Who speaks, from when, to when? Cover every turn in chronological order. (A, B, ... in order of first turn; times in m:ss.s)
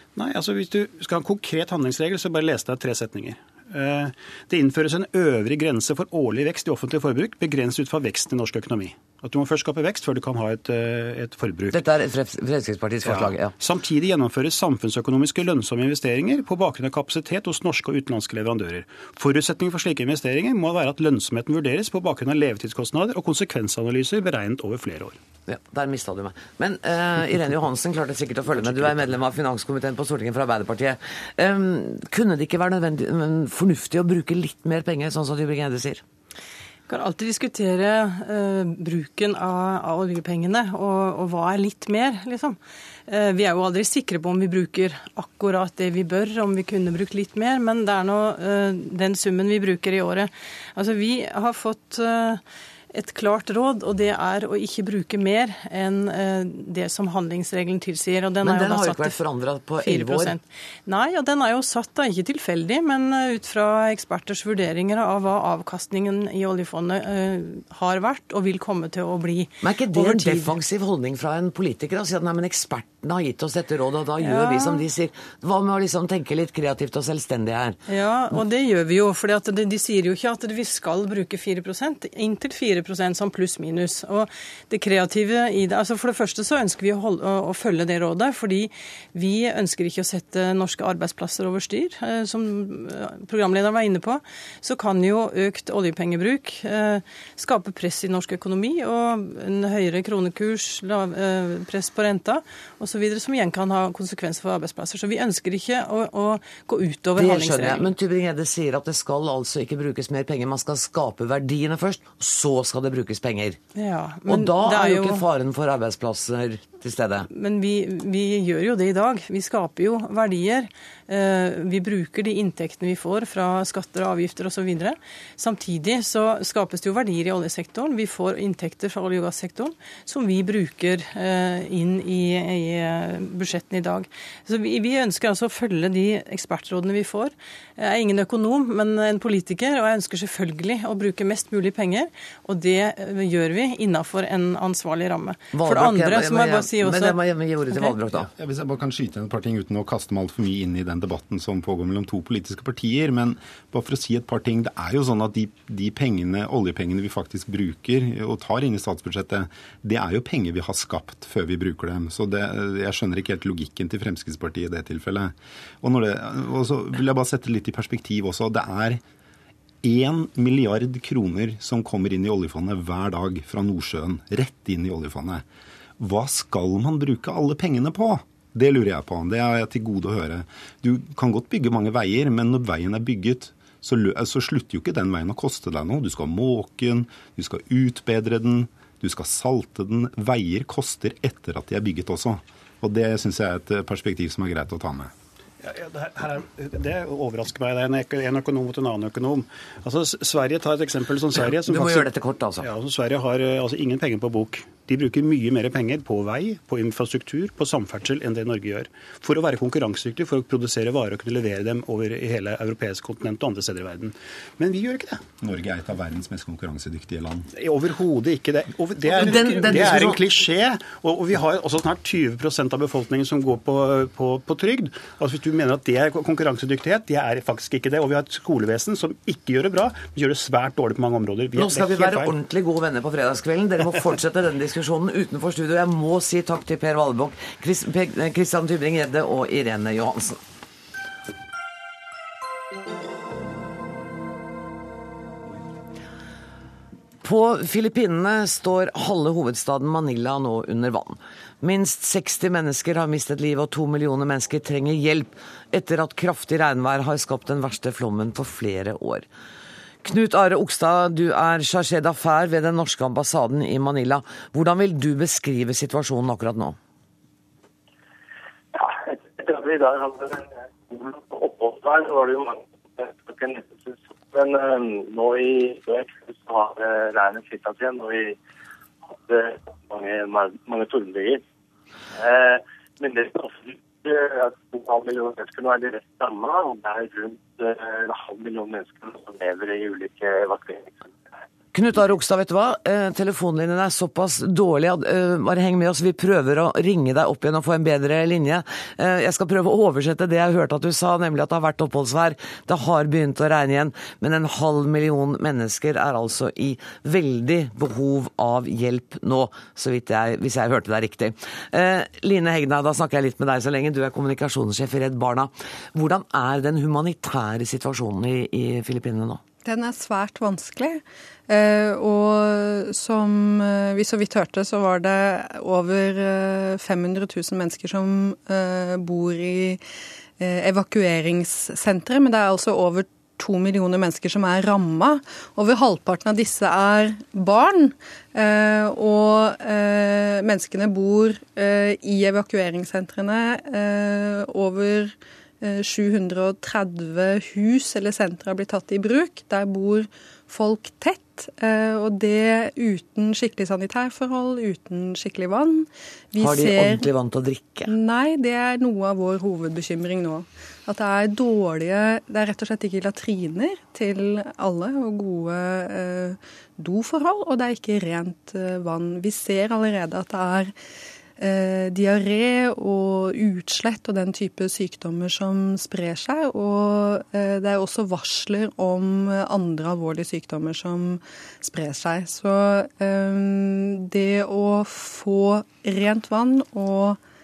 0:00.2-0:11.8 A
0:11.7-0:13.5 B
0:13.0-0:25.2 A
0:25.5-0:36.0 B
0:36.9-0:42.6 C
0:43.1-0:52.4 C
0:52.9-0:59.2 C
0:58.4-1:00.3 B
0:59.8-1:10.6 C
1:09.6-1:17.8 B
1:14.2-1:14.8 C
1:17.9-1:47.9 C
1:47.2-1:53.6 B
1:53.7-1:55.2 C
1:54.3-1:57.3 B
1:57.3-2:27.2 C
2:25.5-2:28.3 B
2:27.7-2:28.0 C
2:28.3-2:49.0 D
2:49.8-2:55.4 D
2:56.0-3:15.1 D
3:15.6-3:35.2 A
3:21.6-3:22.6 B
3:35.4-3:37.5 D
3:37.5-3:52.3 A
3:39.1-3:40.2 B
3:51.6-4:00.4 B
4:07.2-4:19.2 B
4:20.0-4:26.8 B
4:28.7-4:38.4 E
4:39.1-4:41.4 E
4:42.1-4:51.0 E
4:51.7-5:19.4 B
5:19.6-5:29.8 F
5:30.4-5:57.1 F
5:56.4-5:57.9 B
5:57.9-6:10.7 F
6:11.4-6:27.2 F